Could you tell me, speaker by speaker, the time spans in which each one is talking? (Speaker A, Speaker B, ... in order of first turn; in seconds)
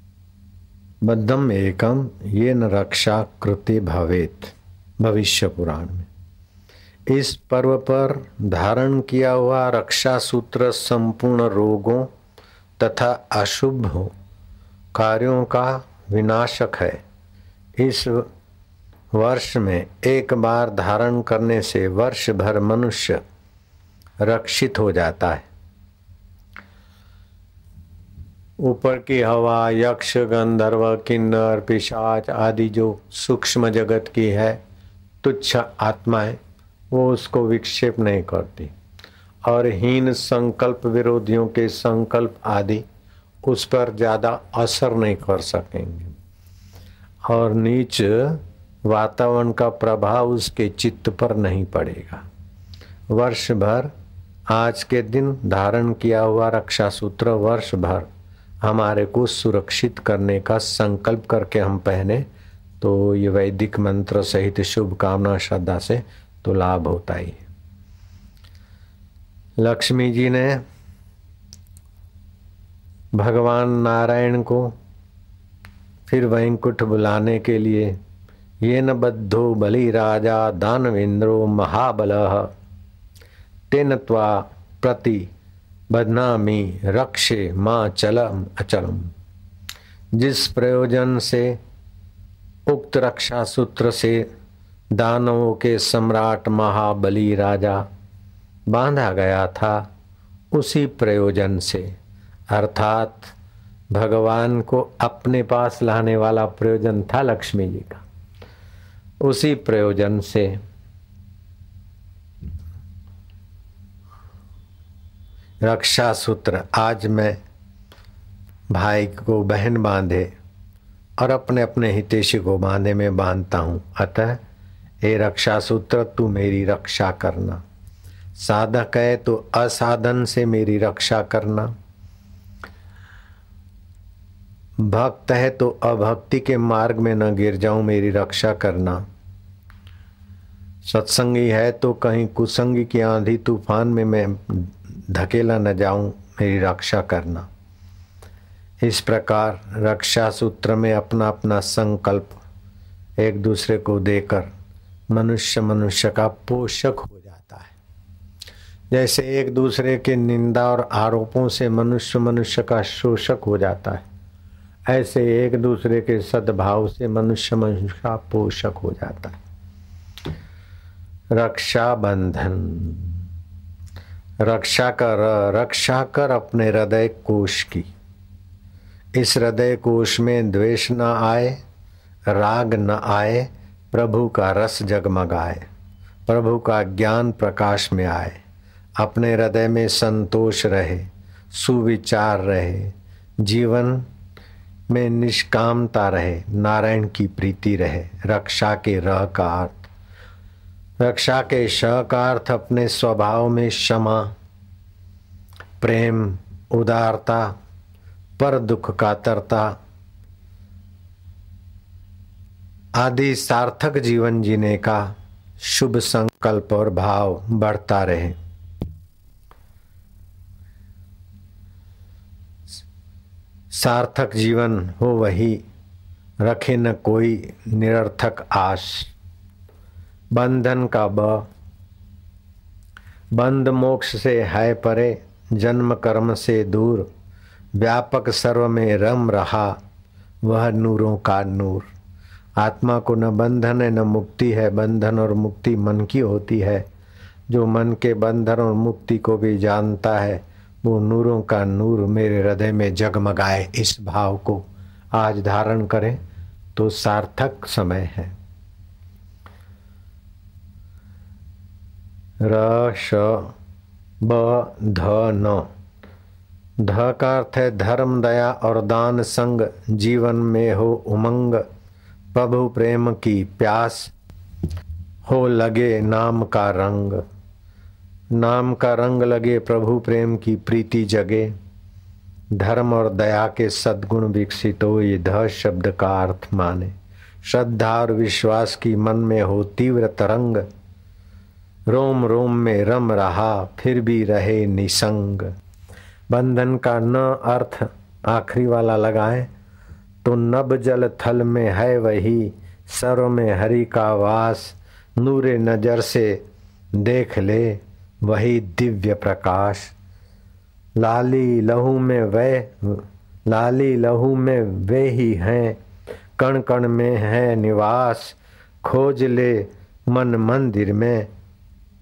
Speaker A: 1.0-6.1, 7.1-12.1, 12.8-14.1, 14.9-17.0, 17.8-18.3, 19.1-23.2, 24.2-25.5, 28.6-34.6, 35.2-36.4, 36.9-38.7, 39.4-42.8, 43.4-46.1, 47.2-52.2, 53.1-53.9, 54.5-58.0, 58.6-62.2, 62.8-67.4, 69.6-70.6, 73.1-74.7, 76.1-77.9, 78.6-82.5, 83.7-85.3, 85.9-89.1, 90.1-91.6, 92.7-94.2, 94.9-97.8, 98.7-99.9, 100.5-101.9, 102.5-103.3, 103.9-108.0, 109.2-110.5, 115.6-117.4, 118.7-120.3, 121.2-124.4, 125.0-127.6, 128.4-131.7, 134.8-139.0, 140.8-147.5, 148.8-152.4, 153.2-154.5, 155.1-157.7, 158.9-164.0, 164.9-169.4, 171.3-173.2, 174.4-177.9, 179.1-181.6, 182.3-185.7, 186.3-188.4, 189.0-194.0, 194.9-199.9, 201.0-204.3, 205.8-207.5, 208.4-209.7, 212.9-218.3, 223.7-225.6, 226.4-229.1, 230.3-231.4, 233.3-237.1, 237.8-239.8, 240.4-241.9, 242.6-246.8, 247.5-256.2, 256.7-258.3, 262.4-263.5, 264.2-265.7, 266.8-271.6, 272.3-274.1, 275.2-277.2, 278.3-281.5, 282.6-290.6, 291.9-295.5, 296.3-299.5, 300.2-306.4, 306.9-309.9, 311.0-315.8, 316.4-321.3